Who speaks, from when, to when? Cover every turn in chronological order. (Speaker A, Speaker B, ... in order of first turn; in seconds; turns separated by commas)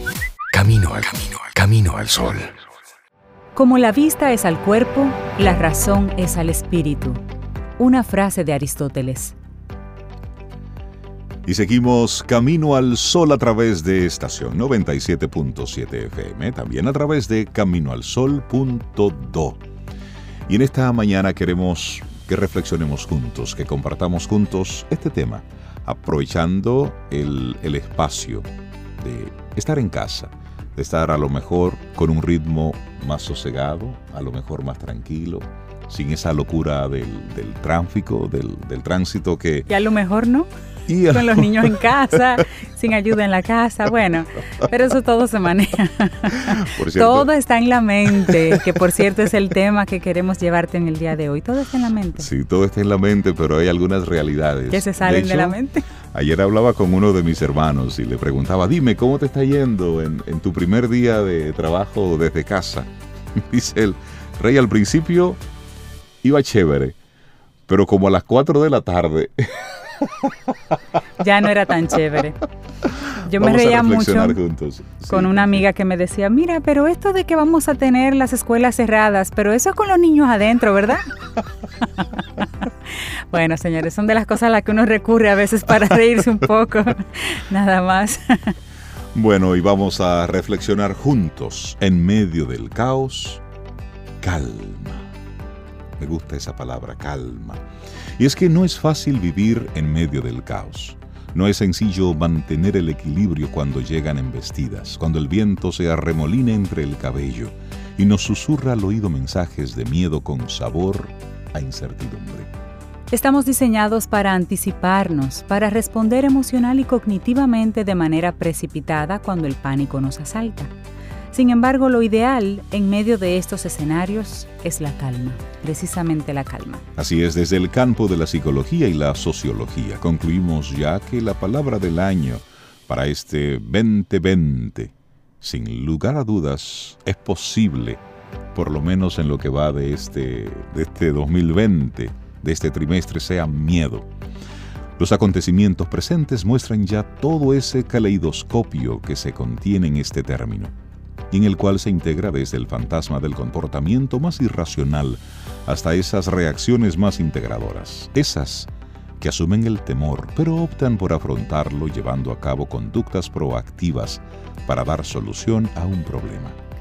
Speaker A: 0.5-2.5, Speaker B: 3.5-7.2, Speaker B: 7.8-9.3, Speaker C: 11.4-19.6, Speaker C: 20.5-28.5, Speaker C: 29.0-39.7, Speaker B: 39.7-40.5, Speaker C: 40.9-42.2, Speaker B: 41.0-52.3, Speaker C: 46.6-47.3, Speaker C: 52.2-55.6, Speaker B: 54.7-55.9, Speaker C: 56.1-65.4, Speaker C: 66.2-67.0, Speaker C: 67.7-70.3, Speaker B: 71.2-72.4, Speaker B: 73.2-74.4, Speaker C: 73.3-75.6, Speaker B: 75.1-81.0, Speaker B: 82.0-82.7, Speaker B: 83.3-88.5, Speaker C: 89.1-93.4, Speaker C: 94.2-95.1, Speaker C: 96.0-97.6, Speaker C: 98.2-112.5, Speaker B: 113.1-120.7, Speaker B: 121.3-126.8, Speaker C: 127.0-138.0, Speaker C: 138.5-144.1, Speaker C: 145.0-150.7, Speaker C: 151.3-166.6